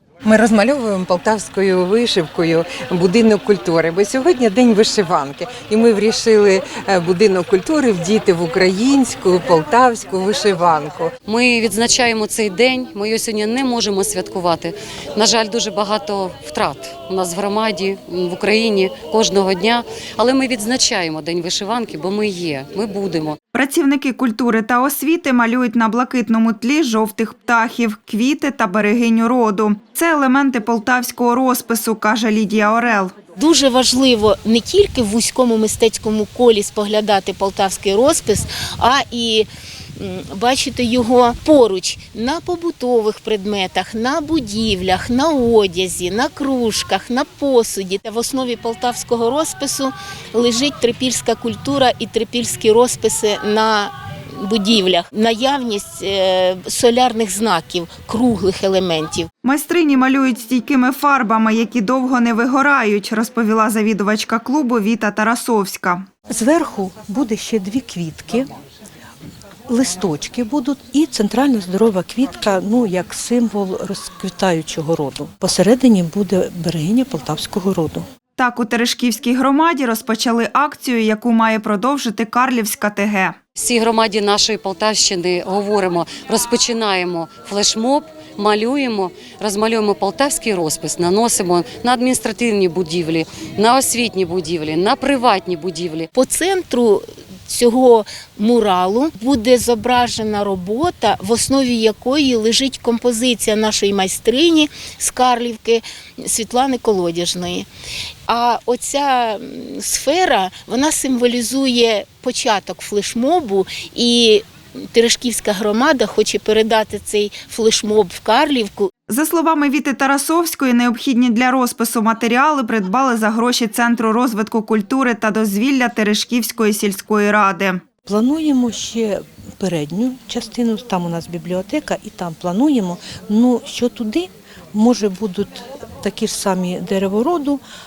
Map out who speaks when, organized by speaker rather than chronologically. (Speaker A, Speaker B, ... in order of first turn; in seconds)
Speaker A: 0.2-11.1
Speaker B: 11.2-23.4, 83.6-96.1
Speaker C: 23.5-33.1, 59.5-66.0, 78.4-83.4, 119.1-127.8
Speaker D: 33.4-59.3, 96.1-107.7, 108.3-118.9
Speaker E: 66.3-68.5, 69.7-78.0, 128.1-137.6